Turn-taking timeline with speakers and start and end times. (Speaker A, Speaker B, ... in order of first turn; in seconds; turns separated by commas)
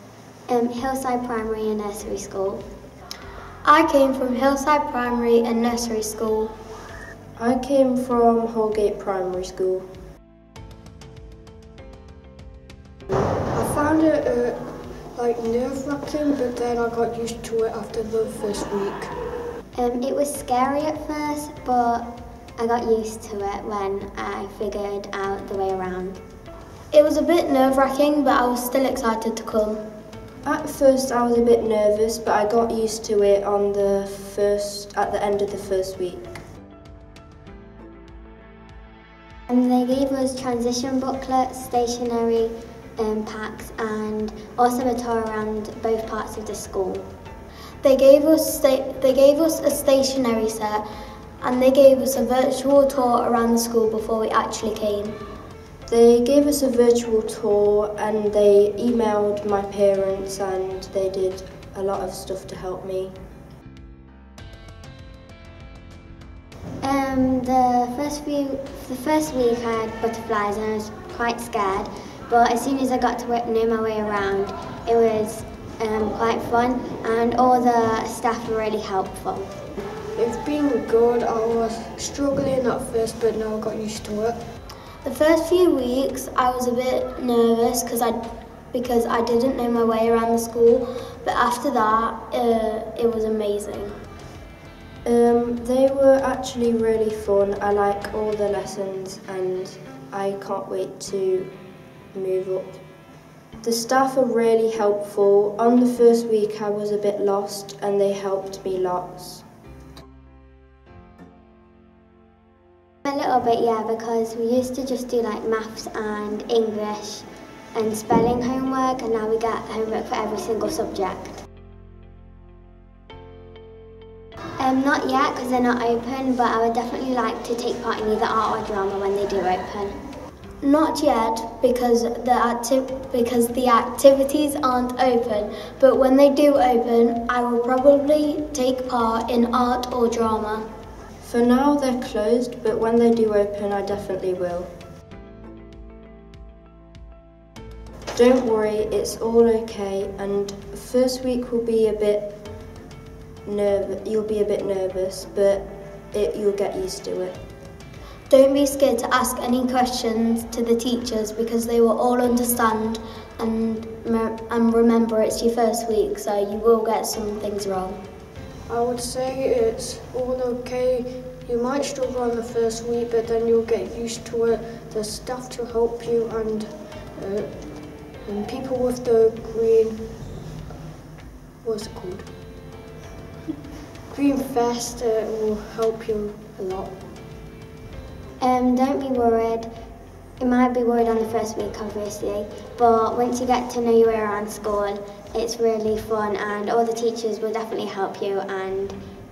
Speaker A: 0.5-2.6, Speaker B: 3.6-6.5, Speaker C: 7.4-9.9, Speaker D: 13.5-14.6, Speaker D: 15.1-19.1, Speaker A: 19.7-26.2, Speaker B: 26.9-29.8, Speaker C: 30.4-36.2, Speaker A: 39.5-47.0, Speaker B: 47.8-50.9, Speaker B: 51.4-55.1, Speaker C: 55.9-63.1, Speaker A: 66.8-79.5, Speaker D: 80.1-84.4, Speaker B: 85.0-88.2, Speaker B: 88.7-94.0, Speaker C: 95.0-101.5, Speaker C: 102.1-102.8, Speaker C: 103.6-109.4, Speaker A: 113.0-121.4, Speaker A: 124.6-129.9, Speaker B: 130.6-140.7, Speaker C: 141.2-144.7, Speaker C: 148.1-152.3, Speaker C: 153.4-157.3, Speaker B: 158.3-168.0, Speaker D: 168.7-180.1, Speaker D: 181.6-182.2, Speaker D: 184.1-186.9, Speaker A: 188.4-189.7, Speaker A: 190.4-199.0